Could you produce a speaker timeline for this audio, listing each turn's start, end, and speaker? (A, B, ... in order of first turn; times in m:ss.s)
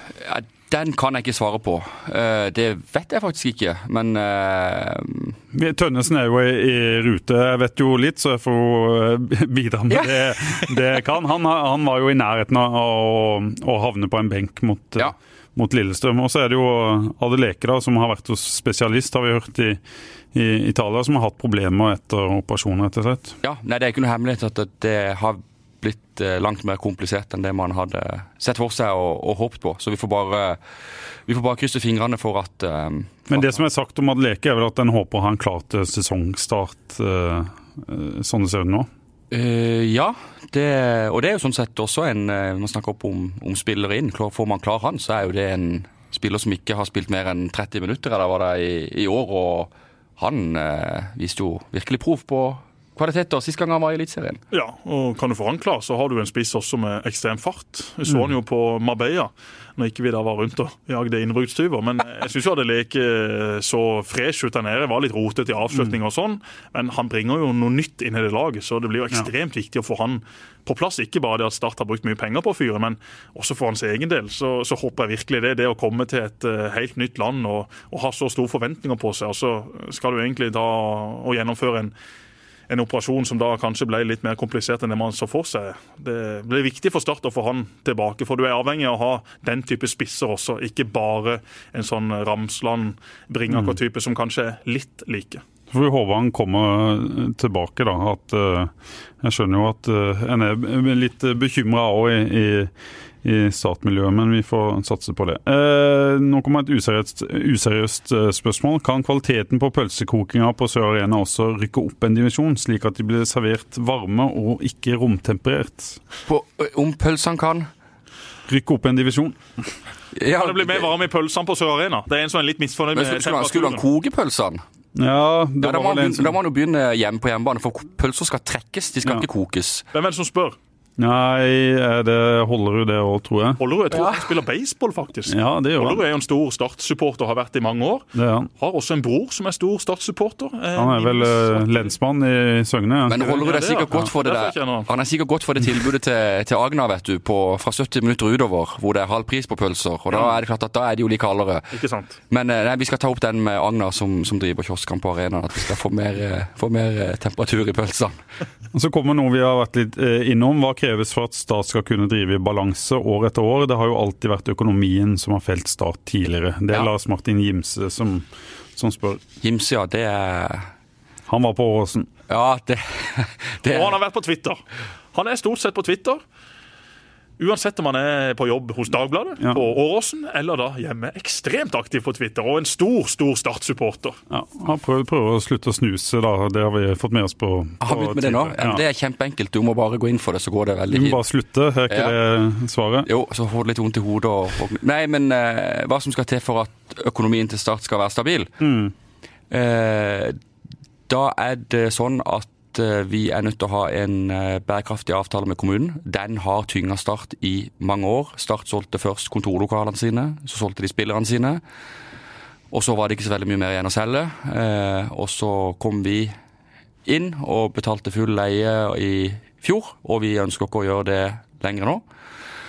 0:00.2-0:05.4 A
0:05.5-0:19.8 B
0:20.3-0:23.4 B
0:23.4-0:30.6 A
0:31.3-0:33.6 A
0:33.3-0:38.9 B
0:39.3-0:54.4 A
0:54.5-1:21.9 C
1:22.7-1:35.4 C
1:33.5-1:33.8 B
1:35.7-1:42.7 B
1:43.2-1:56.0 B
1:56.3-1:57.7 A
1:58.5-1:59.4 B
2:00.1-2:00.9 A
2:00.2-2:03.8 C
2:02.9-2:04.6 A
2:05.0-2:06.3 B
2:05.6-2:09.8 A
2:09.9-2:10.6 C
2:11.0-2:13.6 B
2:13.6-2:21.9 C
2:13.9-2:14.3 A
2:15.3-2:16.0 B
2:18.1-2:18.5 B
2:20.8-2:23.3 B
2:23.0-2:31.7 A
2:23.2-2:24.9 C
2:31.7-2:32.2 C
2:32.3-2:38.1 A
2:38.7-2:49.2 B
2:49.4-2:50.7 A
2:51.3-2:52.1 B
2:52.3-2:54.0 A
2:53.7-2:56.2 C
2:57.4-3:04.2 C
3:04.3-3:08.8 B
3:07.8-3:11.2 A
3:10.9-3:13.1 B
3:11.9-3:12.2 A
3:13.0-3:18.6 A
3:18.6-3:18.9 B
3:19.5-3:20.4 A
3:21.1-3:31.6 A
3:32.7-3:36.3 A
3:37.0-3:42.0 A